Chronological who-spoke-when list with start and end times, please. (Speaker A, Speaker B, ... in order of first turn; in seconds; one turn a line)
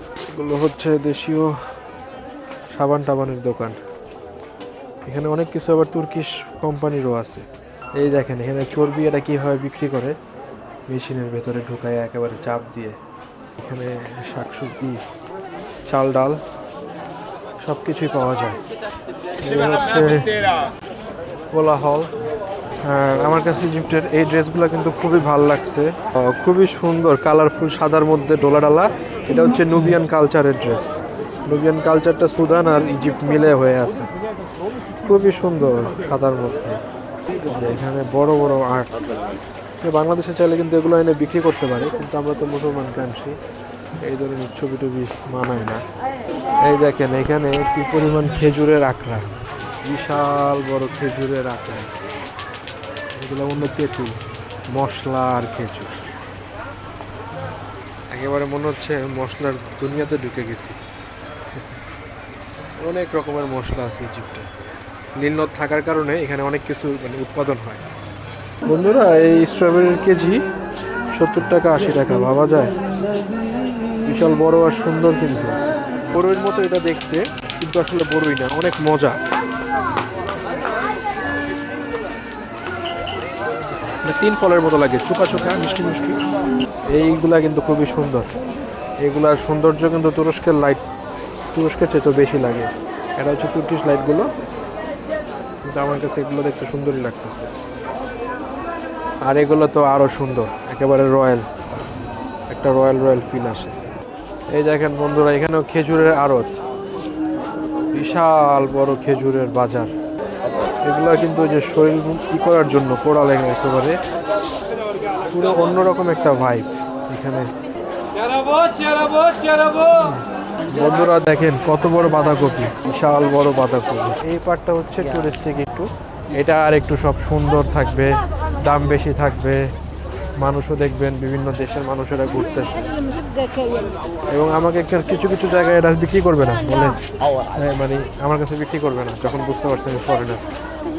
Speaker A: 0.2-1.6
Speaker A: 2.7-3.8
Speaker A: 5.0-7.4
Speaker A: 8.0-10.2
Speaker A: 10.9-13.0
Speaker A: 13.6-15.0
Speaker A: 15.9-16.4
Speaker A: 17.6-18.6
Speaker A: 19.4-20.4
Speaker A: 21.5-22.1
Speaker A: 22.8-30.9
Speaker A: 31.5-34.1
Speaker A: 35.0-36.8
Speaker A: 37.5-38.9
Speaker A: 39.8-43.4
Speaker A: 44.0-45.8
Speaker A: 46.6-49.3
Speaker A: 49.8-51.9
Speaker A: 53.1-54.2
Speaker A: 54.7-56.1
Speaker A: 58.1-60.8
Speaker A: 62.8-64.5
Speaker A: 65.1-67.8
Speaker A: 68.6-70.4
Speaker A: 71.1-72.7
Speaker A: 74.0-75.6
Speaker A: 76.1-79.2
Speaker A: 84.0-86.2
Speaker A: 86.9-88.3
Speaker A: 89.0-90.8
Speaker A: 91.5-94.3
Speaker A: 95.6-97.5
Speaker A: 99.2-101.5
Speaker A: 102.5-103.7
Speaker A: 104.5-106.5
Speaker A: 107.9-109.9
Speaker A: 110.8-114.0
Speaker A: 115.2-117.5
Speaker A: 119.2-129.6
Speaker A: 130.4-132.9
Speaker A: 134.3-137.0
Speaker A: 137.5-140.4